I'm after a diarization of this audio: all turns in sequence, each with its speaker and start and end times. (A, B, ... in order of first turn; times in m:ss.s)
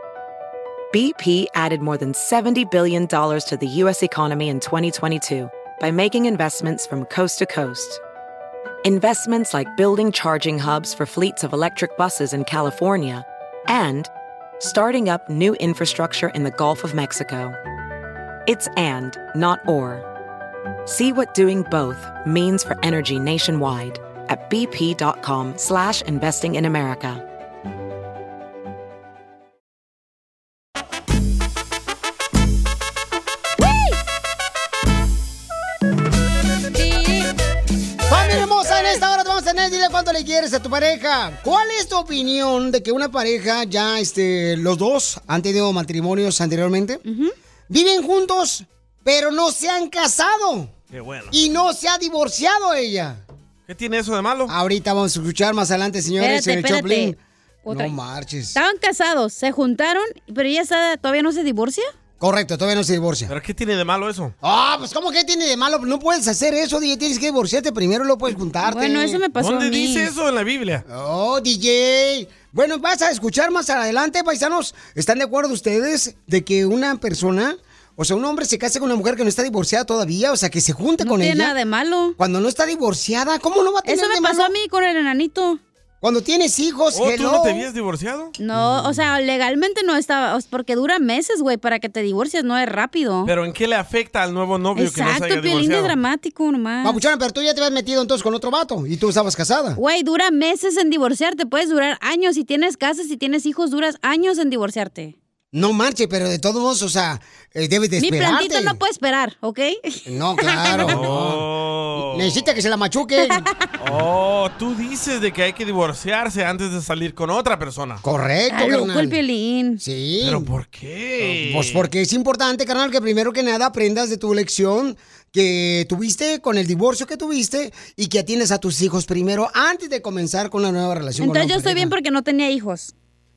0:00.9-0:08.0 A
0:08.8-0:17.6 A
0:18.5-0:20.1 A
0:20.9-0:27.2 A
0:36.8-0:37.3 B
0:38.1-0:47.0 C
0:47.1-0:47.3 B
0:47.7-0:50.7 C
0:50.9-0:51.4 D
0:51.3-0:53.2 C
0:53.7-0:54.5 D
0:54.5-0:58.6 C
0:56.2-0:57.1 B
0:57.7-0:58.0 B
0:58.6-1:01.9 B
1:02.2-1:03.3 C
1:03.3-1:04.3 D
1:04.4-1:09.2 C
1:08.6-1:10.1 B
1:09.4-1:10.8 D
1:10.9-1:21.6 C
1:21.0-1:22.2 B
1:22.2-1:24.5 C
1:23.8-1:25.6 B
1:26.0-1:27.7 C
1:26.9-1:28.4 D
1:28.4-1:33.3 B
1:33.3-1:36.0 D
1:34.8-1:37.0 B
1:36.8-1:39.8 C
1:39.8-1:45.2 B
1:45.5-1:48.8 C
1:48.0-1:51.0 B
1:50.0-1:51.5 C
1:50.7-1:52.6 D
1:52.1-1:53.5 C
1:53.8-1:58.0 D
1:58.0-1:59.2 C
1:58.5-1:59.8 B
1:59.8-2:00.5 C
2:00.2-2:01.8 D
2:01.2-2:11.9 C
2:11.2-2:12.9 B